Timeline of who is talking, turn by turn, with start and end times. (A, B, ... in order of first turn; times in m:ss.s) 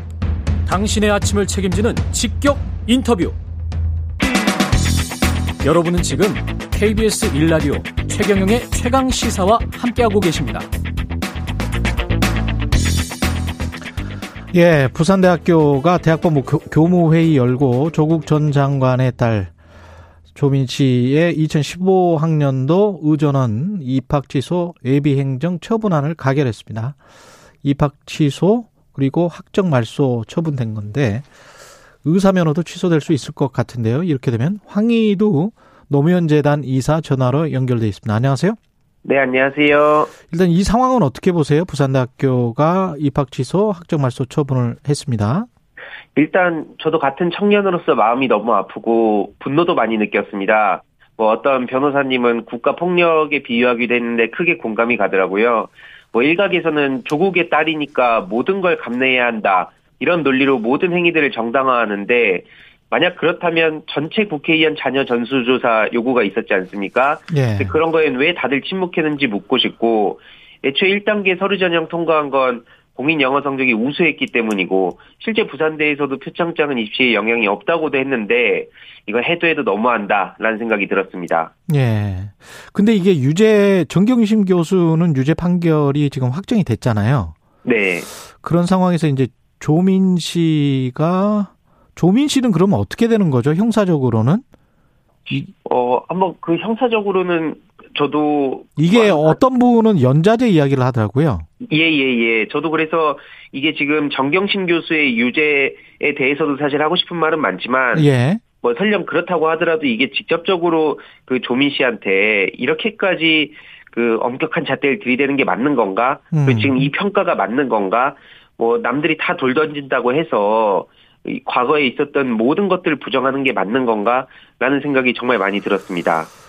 0:00.7-0:03.4 A
0:05.6-0:10.7 A
0:14.5-0:19.5 B
0:20.4-0:27.0 B
0:27.6-0:31.2 B
0:32.0-0:38.6 B
0:39.0-0:40.1 C
0:40.3-0:45.5 B
0:46.2-1:21.5 C
1:07.3-1:07.8 B
1:21.7-1:27.4 B
1:27.6-1:28.1 C
1:28.4-1:34.4 B
1:35.6-1:39.4 C
1:38.8-1:41.5 B
1:41.7-1:48.1 C
1:47.9-1:48.4 B
1:48.6-2:06.3 C
1:56.3-1:56.9 B